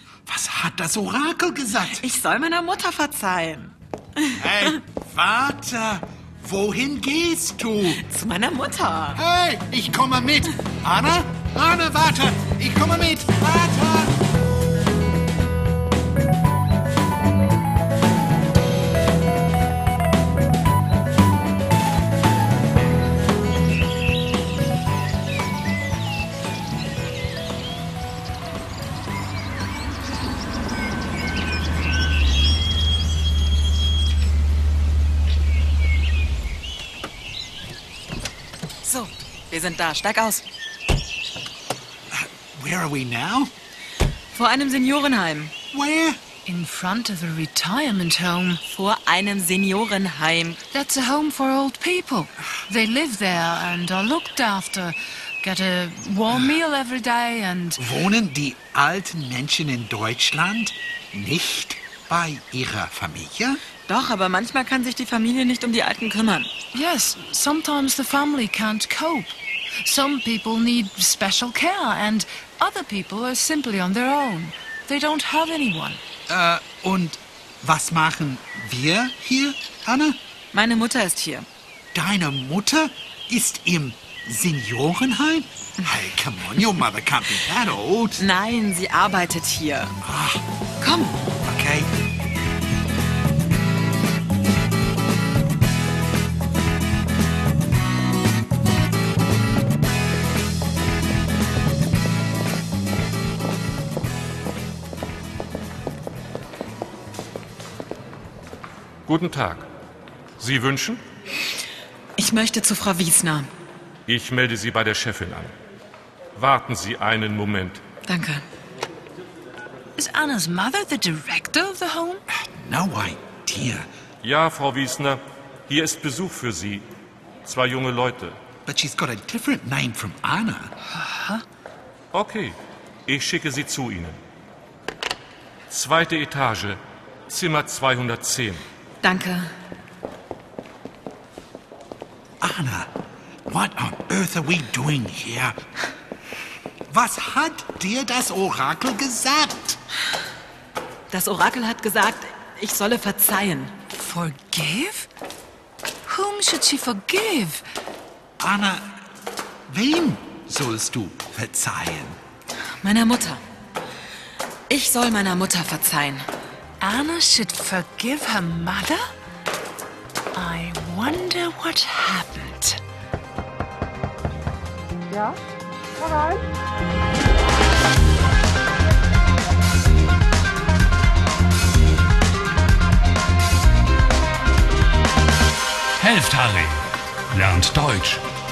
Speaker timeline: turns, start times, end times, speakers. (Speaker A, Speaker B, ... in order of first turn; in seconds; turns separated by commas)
Speaker A: 0.3-2.0, Speaker B: 1.8-4.8, Speaker A: 4.4-8.0, Speaker B: 7.9-9.2, Speaker A: 9.2-14.2, Speaker B: 38.8-40.4, Speaker A: 42.1-43.5, Speaker B: 44.3-45.5, Speaker A: 45.7-46.2, Speaker C: 46.4-48.6, Speaker B: 48.6-50.6, Speaker C: 50.7-57.8, Speaker A: 57.8-63.6, Speaker B: 63.8-66.5, Speaker C: 66.7-76.0, Speaker A: 76.3-80.2, Speaker B: 80.5-81.5, Speaker A: 81.9-88.2, Speaker B: 88.2-90.0, Speaker A: 90.0-90.4, Speaker B: 90.8-91.2, Speaker A: 91.4-91.9, Speaker D: 109.1-109.7, Speaker D: 110.4-111.0, Speaker B: 112.2-113.5, Speaker D: 114.1-115.5, Speaker D: 116.3-117.8, Speaker B: 118.0-118.4, Speaker C: 120.0-122.2, Speaker A: 122.3-123.9, Speaker D: 124.2-126.9, Speaker D: 127.5-128.4, Speaker A: 128.7-130.7, Speaker C: 130.9-131.4, Speaker D: 132.1-134.2, Speaker D: 135.7-138.6, Speaker B: 139.0-139.5, Speaker A: 142.4-142.9, Speaker A: 143.5-145.6, Speaker A: 146.9-149.8, Speaker B: 151.1-153.8, Speaker C: 153.9-155.1, Speaker C: 156.1-157.6, Speaker A: 158.4-159.1, Speaker A: 159.7-162.2, Speaker B: 162.8-163.4, Speaker B: 164.7-166.3, Speaker C: 166.8-169.0, Speaker C: 170.3-172.8, Speaker E: 186.0-188.2